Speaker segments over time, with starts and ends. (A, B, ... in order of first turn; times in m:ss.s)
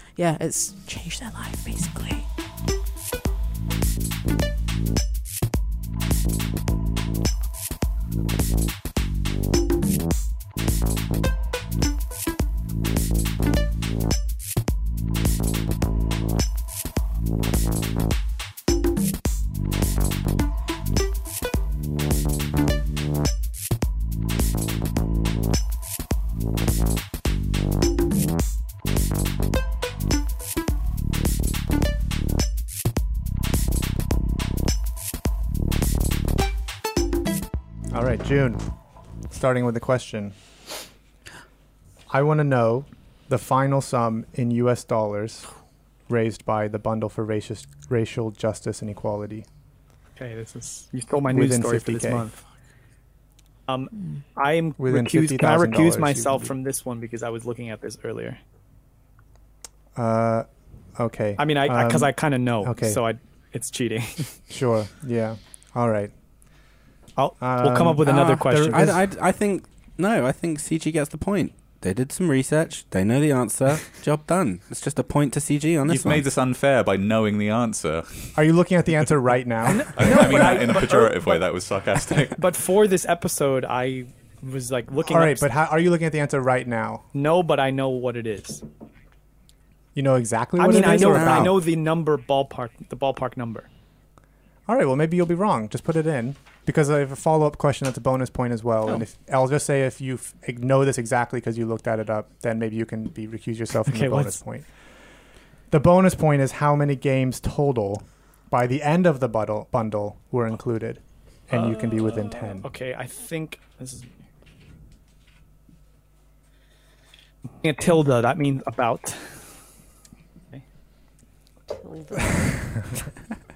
0:00.1-0:02.3 A
0:37.9-0:38.6 B
0:39.3-0:40.4 B
0:42.1-0:45.5 B
0:46.1-0:49.4 B
0:50.2-0:52.4 C
0:51.2-0:52.3 B
0:53.7-0:58.4 C
0:54.8-0:56.5 B
0:59.9-1:03.0 B
1:01.4-1:04.4 C
1:04.5-1:06.1 B
1:07.2-1:08.9 C
1:07.4-1:09.0 B
1:08.0-1:16.2 D
1:15.8-1:18.4 E
1:18.3-1:20.6 B
1:19.7-1:21.4 C
1:19.7-1:22.5 E
1:22.3-1:25.5 C
1:25.0-1:27.0 B
1:27.1-1:28.6 C
1:29.9-1:31.6 B
1:30.6-1:33.7 C
1:30.7-1:31.5 D
1:34.7-1:44.7 B
1:43.8-1:44.4 C
1:45.7-1:52.7 B
1:51.5-1:54.1 C
1:57.6-1:59.4 C
2:01.8-2:02.6 A